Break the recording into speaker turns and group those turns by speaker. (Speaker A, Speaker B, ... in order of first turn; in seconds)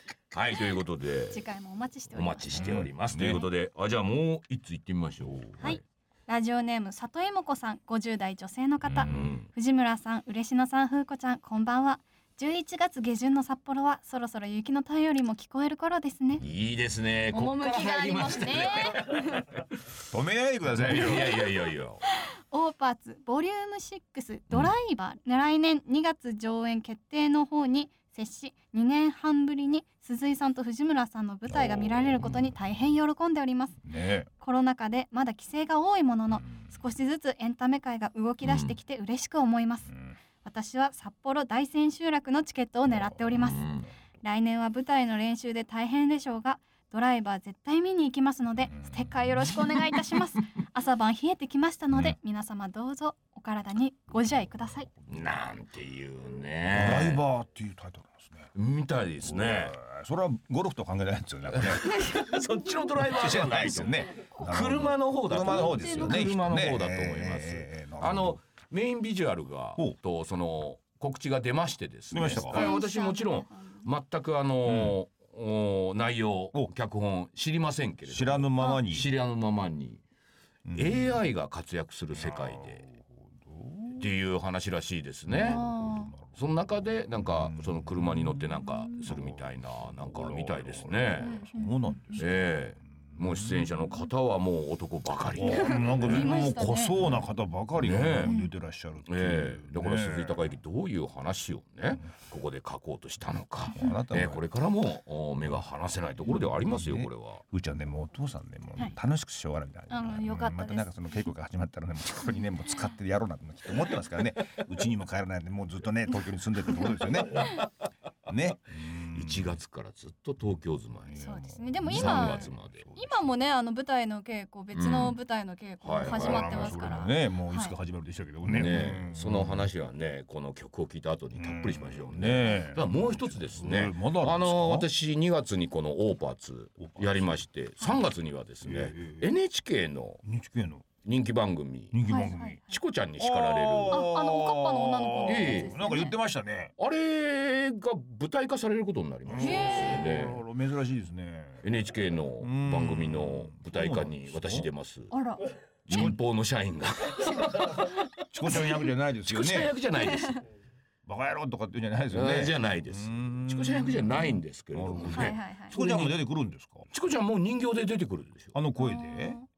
Speaker A: 0.3-1.4, 2.1-5.8, 9.0-9.4, 16.4-19.7, 20.7-22.0, 38.4-38.7, 43.4-43.9, 55.1-57.2, 58.5-59.8, 61.5-80.0, 80.7-82.9, 83.9-85.6, 86.3-91.4, 92.2-96.2, 97.8-98.3, 99.0-107.4, 119.0-121.2, 121.8-122.8, 124.7-125.2, 125.8-126.9, 128.5-140.2, 141.0-142.0, 142.7-144.1, 145.2-145.8, 146.8-150.4, 151.6-155.1, 155.8-158.7, 159.2-160.4, 162.1-166.2, 166.9-168.5
Speaker B: 1.3-2.7, 5.6-16.4, 17.3-19.4, 22.1-33.8, 34.4-43.7, 44.2-54.9, 65.4-66.3, 72.5-73.8, 78.6-78.8, 85.4-86.1, 91.2-92.0, 95.5-97.0, 98.2-98.5, 109.9-110.9, 121.2-127.7, 142.1-142.7, 143.9-146.2, 149.4-150.1, 155.1-156.1, 160.1-160.3, 165.1-165.8, 168.8-169.4
Speaker C: 2.6-3.4, 8.9-9.3, 20.1-21.4, 33.8-34.3, 56.7-58.5, 59.2-62.2, 62.9-68.4, 72.1-72.7, 74.7-75.0, 78.1-79.1, 80.7-81.2, 82.1-84.0, 85.3-86.3, 87.1-92.5, 93.1-93.9, 95.3-100.5, 103.7-104.4, 106.2-117.6, 118.2-119.6, 121.1-123.3, 126.0-129.7, 131.3-134.9, 136.8-137.4, 138.6-139.3, 140.2-140.8, 141.9-142.6, 143.2-146.7, 149.2-151.6, 152.4-154.7, 155.9-156.2, 158.2-159.7, 161.0-166.9, 168.5-169.4